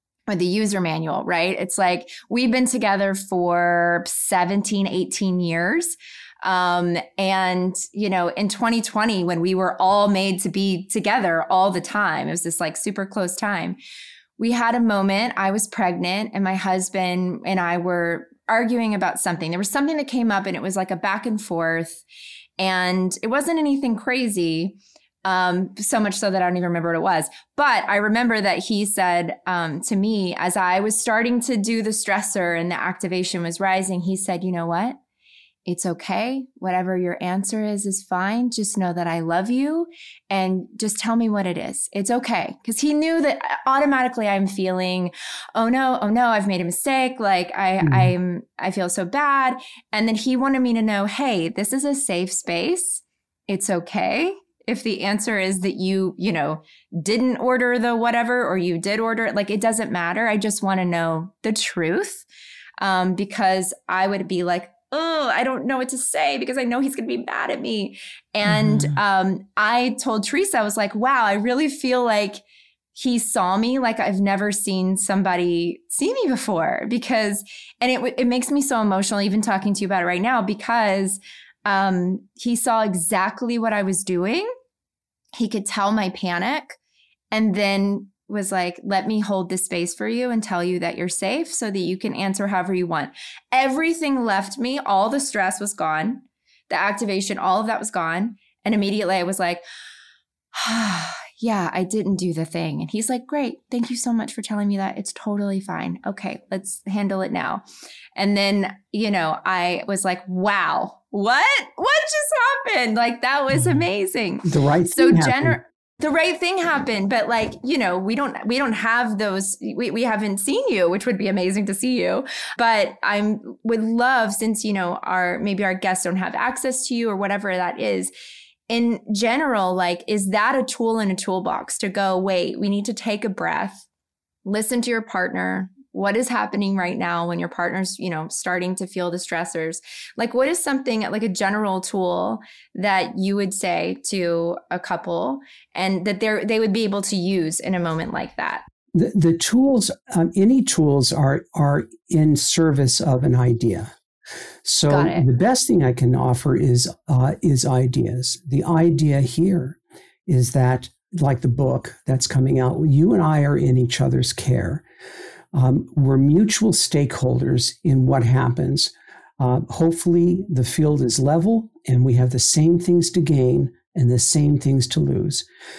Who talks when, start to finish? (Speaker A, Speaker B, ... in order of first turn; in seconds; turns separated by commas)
Speaker A: 0.3-13.8, Speaker A: 14.4-22.0, Speaker A: 22.6-35.0, Speaker A: 35.6-62.2, Speaker B: 47.8-48.1, Speaker A: 62.8-72.4, Speaker B: 68.7-68.9, Speaker A: 73.0-84.5, Speaker A: 85.3-86.8, Speaker A: 87.3-99.6, Speaker A: 100.5-107.6, Speaker A: 108.2-128.1, Speaker B: 114.4-115.6, Speaker A: 128.7-133.8, Speaker A: 134.4-148.6, Speaker B: 148.9-153.9, Speaker B: 154.6-164.8, Speaker A: 154.9-155.2, Speaker B: 165.5-175.4